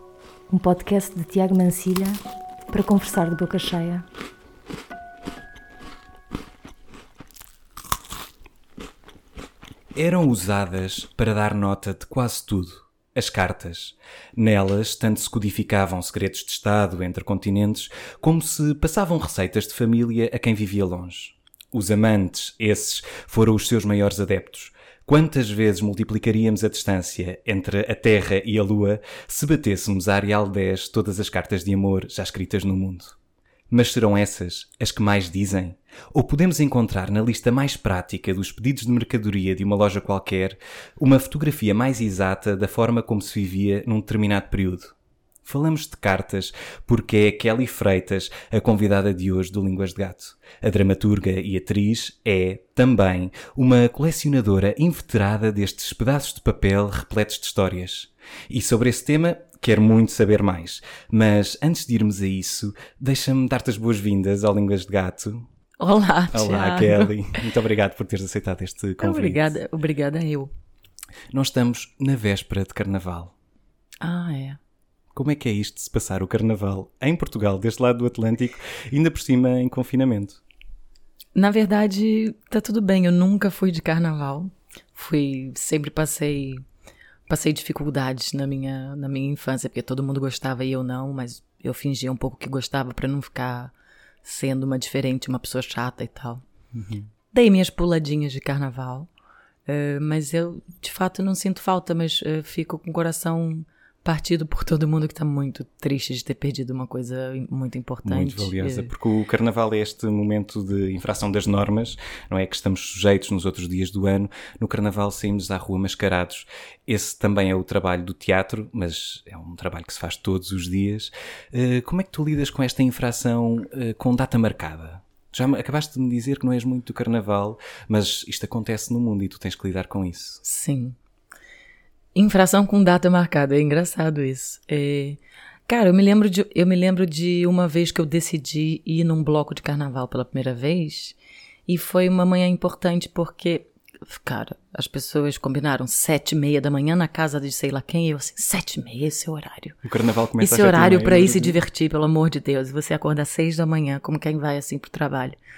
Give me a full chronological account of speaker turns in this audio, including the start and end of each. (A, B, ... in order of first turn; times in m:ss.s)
0:00.5-0:04.0 A
0:09.9-0:33.2 B
0:33.7-0:44.9 B
0:45.4-1:05.5 B
1:05.8-1:07.1 C
1:06.3-1:09.5 B
1:09.0-1:10.5 C
1:11.3-1:13.3 B
1:14.0-1:14.6 C
1:15.1-1:20.4 B
1:21.3-1:26.6 C
1:27.3-1:33.7 C
1:34.2-1:36.4 C
1:36.7-1:37.1 B
1:37.3-1:39.1 C
1:39.7-1:48.9 C
1:48.0-2:10.4 B
2:10.4-2:11.0 C
2:12.1-2:21.2 C
2:21.7-2:29.8 C
2:29.8-2:31.6 B
2:30.4-2:35.4 C